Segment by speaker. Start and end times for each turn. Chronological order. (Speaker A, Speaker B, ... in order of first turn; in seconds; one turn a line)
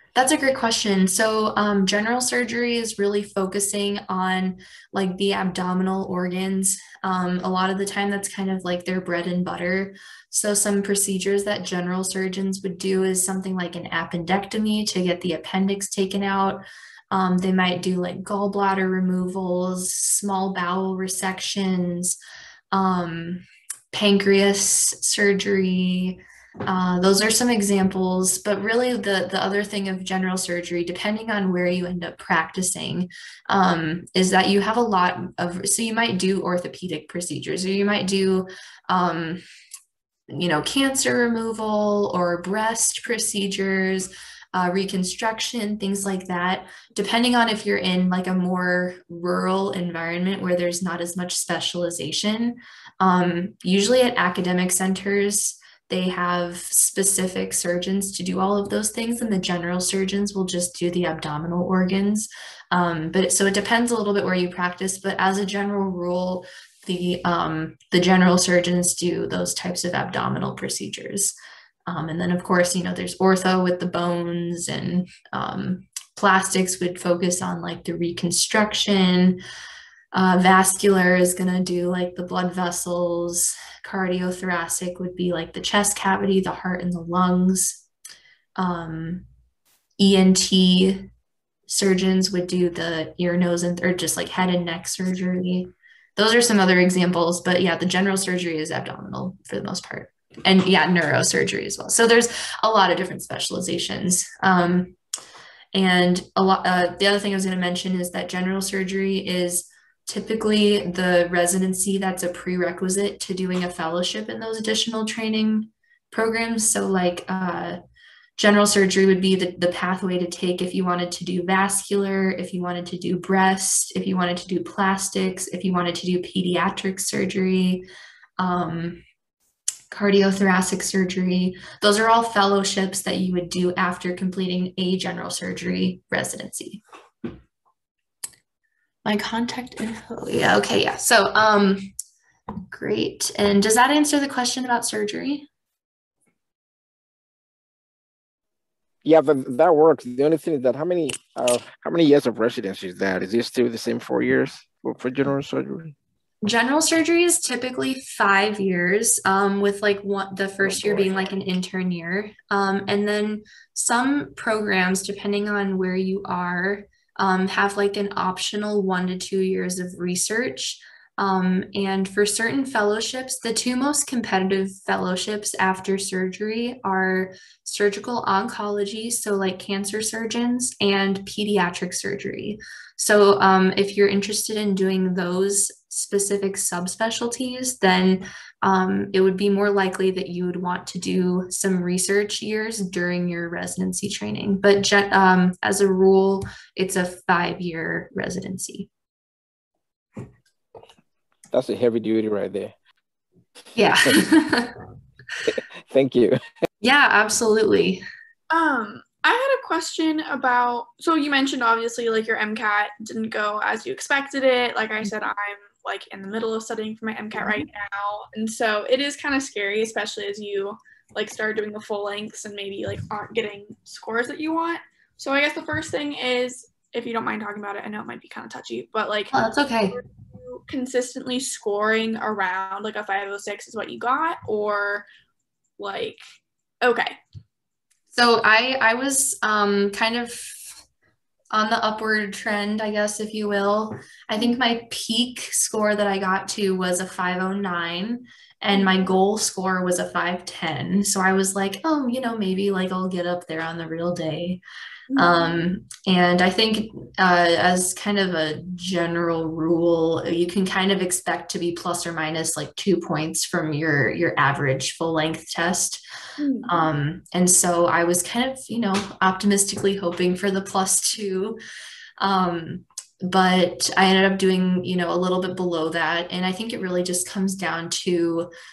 Speaker A: 0.1-22.2
Speaker A: 22.7-39.4
Speaker A: 40.3-71.3
Speaker A: 71.9-79.4
Speaker A: 80.1-87.8
Speaker A: 88.6-89.2
Speaker A: 90.0-91.1
Speaker A: 91.7-104.9
Speaker A: 105.7-117.8
Speaker A: 118.4-127.8
Speaker A: 128.4-129.0
Speaker A: 129.9-136.8
Speaker A: 139.0-141.9
Speaker A: 142.7-145.5
Speaker B: 149.0-155.9
Speaker A: 156.4-198.9
Speaker B: 201.5-202.7
Speaker A: 203.7-204.8
Speaker B: 205.4-206.4
Speaker A: 206.8-208.0
Speaker C: 208.5-229.3
Speaker A: 217.3-217.7
Speaker A: 229.3-230.0
Speaker C: 229.9-235.1
Speaker C: 235.8-236.2
Speaker C: 236.8-237.2
Speaker A: 238.1-240.7
Speaker A: 241.5-254.6
Speaker C: 248.7-249.0
Speaker C: 255.1-255.6
Speaker A: 255.2-266.0
Speaker C: 266.4-266.8
Speaker A: 266.6-271.6
Speaker A: 272.2-278.5